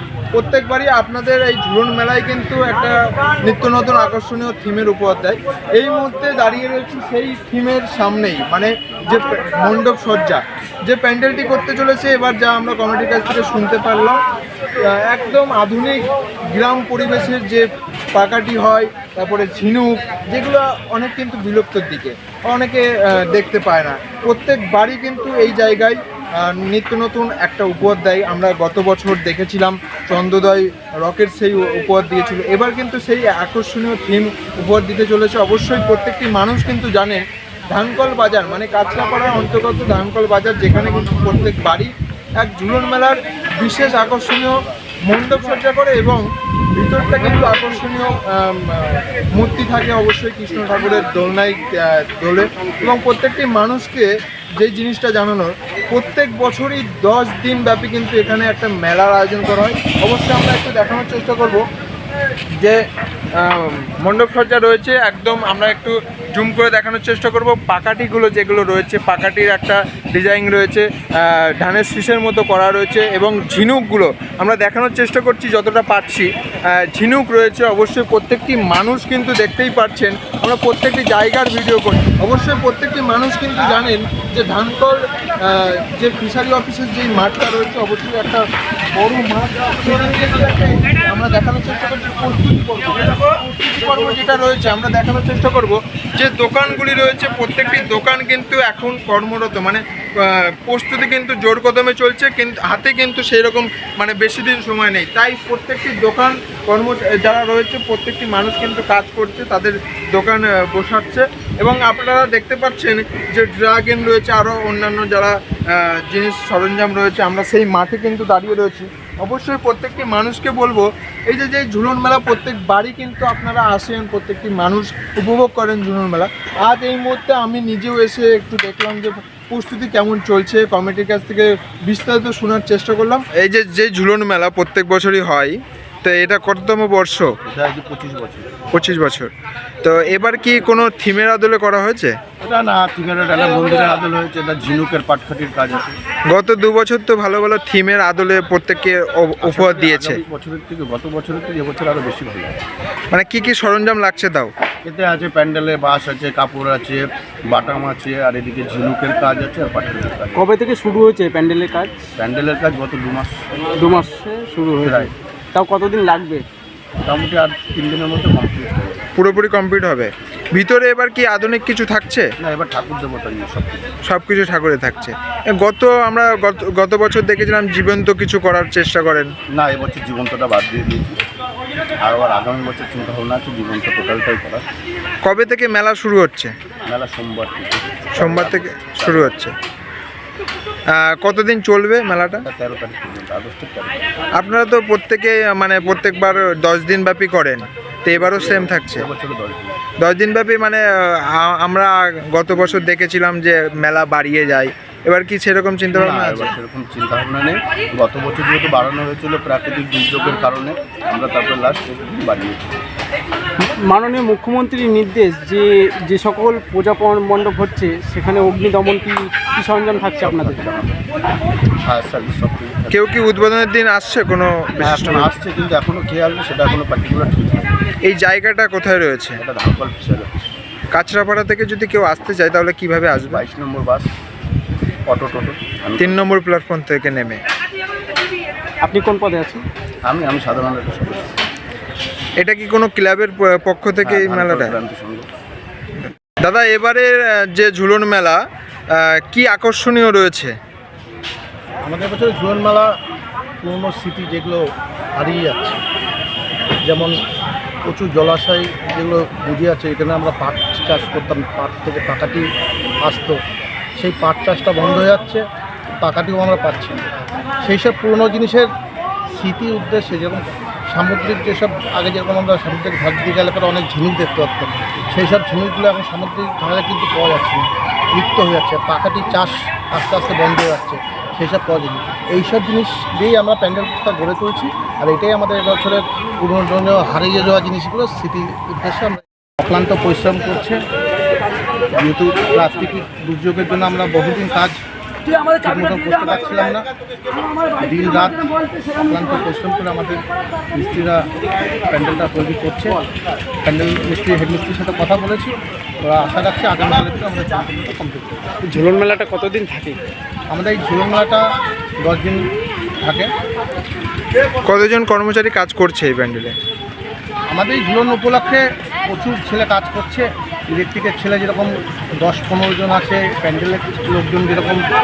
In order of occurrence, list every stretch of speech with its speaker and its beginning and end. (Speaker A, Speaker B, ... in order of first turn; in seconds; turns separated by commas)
Speaker A: 0.3-14.2, Speaker A: 14.8-41.9, Speaker A: 42.4-61.6, Speaker A: 63.4-137.3, Speaker B: 137.4-138.5, Speaker A: 138.7-139.3, Speaker A: 139.8-142.2, Speaker B: 142.4-146.0, Speaker A: 146.3-150.2, Speaker B: 149.4-152.6, Speaker A: 153.1-154.5, Speaker B: 154.8-160.5, Speaker C: 160.3-162.0, Speaker B: 162.2-163.3, Speaker C: 163.8-166.4, Speaker B: 164.8-165.1, Speaker B: 167.1-169.1, Speaker A: 169.2-172.3, Speaker B: 172.4-173.9, Speaker A: 174.1-179.3, Speaker B: 179.5-181.2, Speaker B: 182.0-184.6, Speaker A: 185.2-186.5, Speaker B: 186.9-189.3, Speaker A: 188.1-189.5, Speaker A: 190.9-192.4, Speaker B: 192.4-194.0, Speaker A: 194.4-199.1, Speaker B: 198.1-199.8, Speaker A: 200.0-206.5, Speaker B: 205.9-212.8, Speaker C: 213.8-220.6, Speaker B: 220.2-221.0, Speaker B: 221.8-223.0, Speaker A: 222.9-225.3, Speaker B: 224.8-227.8, Speaker A: 228.1-229.4, Speaker B: 229.4-230.4, Speaker A: 230.9-233.4, Speaker B: 233.3-234.1, Speaker B: 235.1-236.2, Speaker A: 236.0-237.4, Speaker C: 238.8-239.7, Speaker B: 240.0-241.3, Speaker A: 242.4-244.8, Speaker B: 244.0-245.3, Speaker A: 246.0-248.4, Speaker A: 248.9-250.6, Speaker D: 251.8-252.9, Speaker D: 253.6-255.8, Speaker D: 256.8-257.2, Speaker D: 257.8-262.5, Speaker D: 263.0-263.4, Speaker D: 264.0-267.1, Speaker D: 267.6-268.7, Speaker D: 269.3-290.8, Speaker D: 291.9-294.8, Speaker D: 295.6-296.9, Speaker D: 297.8-300.2, Speaker D: 300.8-301.3, Speaker D: 301.9-303.0, Speaker D: 303.6-308.4, Speaker C: 308.6-310.0, Speaker D: 310.5-311.4, Speaker D: 312.0-312.4, Speaker D: 313.1-313.3, Speaker A: 314.6-316.5, Speaker D: 317.5-324.8